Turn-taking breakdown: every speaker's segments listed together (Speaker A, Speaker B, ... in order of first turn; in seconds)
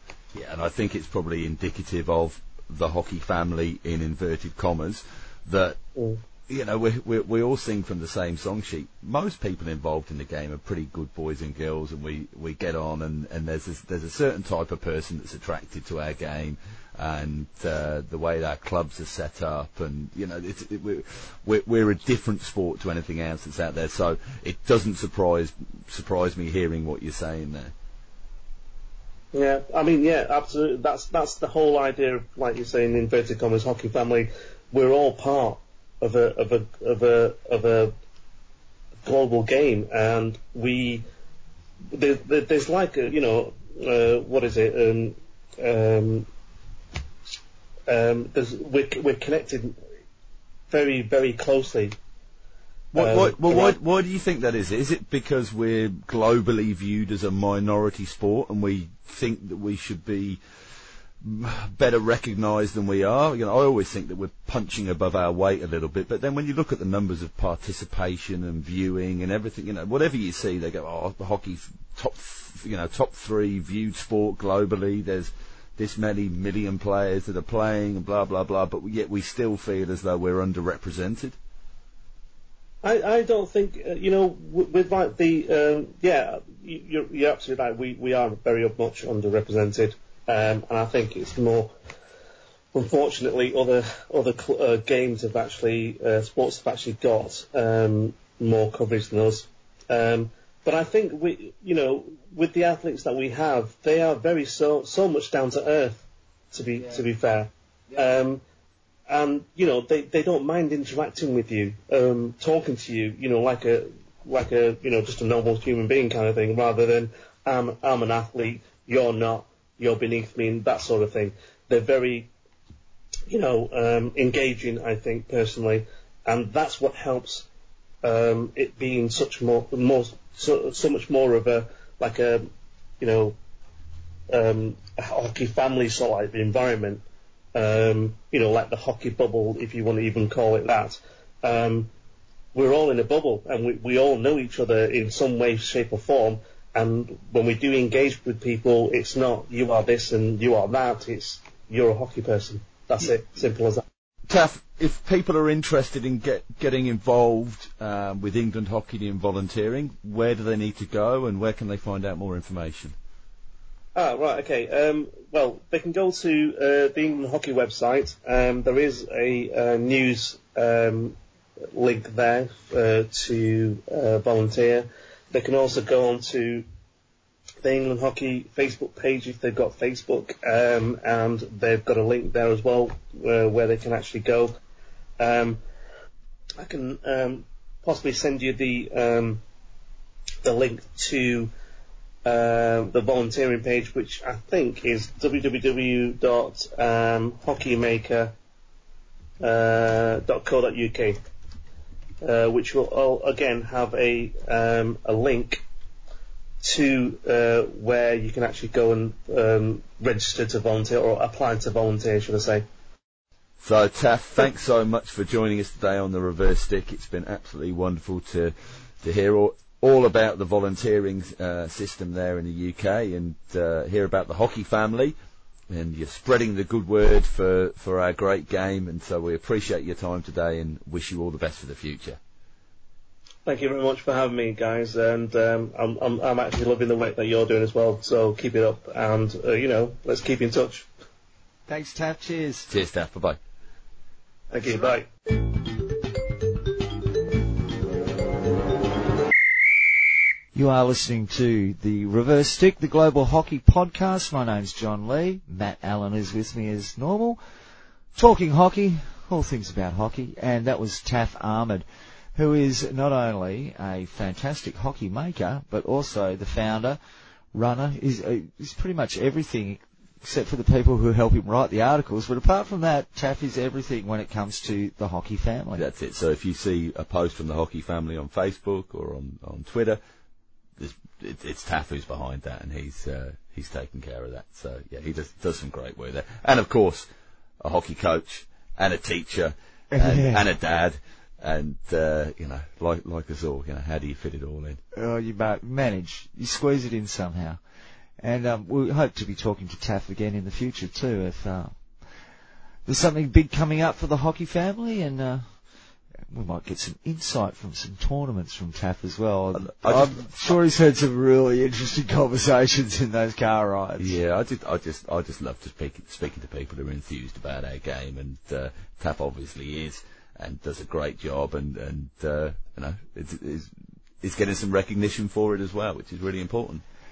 Speaker A: 0.3-5.8, 6.5-27.7, 52.9-60.4, 61.2-81.3, 154.3-162.9, 213.6-225.1, 225.7-232.2, 242.7-243.4, 275.8-280.0, 280.8-287.1, 287.6-294.8, 309.5-310.3, 314.0-326.8
Speaker B: 29.3-37.9, 39.0-41.0, 41.9-46.3, 47.9-49.8, 50.7-51.9, 52.9-53.8, 82.8-91.7, 92.7-108.4, 109.1-122.3, 123.3-127.5, 128.0-132.5, 133.0-133.3, 134.3-137.0, 137.5-141.9, 142.5-153.8, 163.9-171.2, 171.7-176.6, 177.6-184.5, 185.2-185.6, 186.6-189.4, 190.4-191.5, 192.2-198.3, 199.4-201.2, 202.2-205.6, 206.6-212.6, 233.4-240.9, 244.5-245.1
Speaker C: 241.7-242.7, 250.5-257.4, 258.1-261.8, 262.4-267.0, 267.5-275.8, 289.9-290.5, 294.9-297.6, 298.2-301.8, 302.9-305.5, 306.3-314.2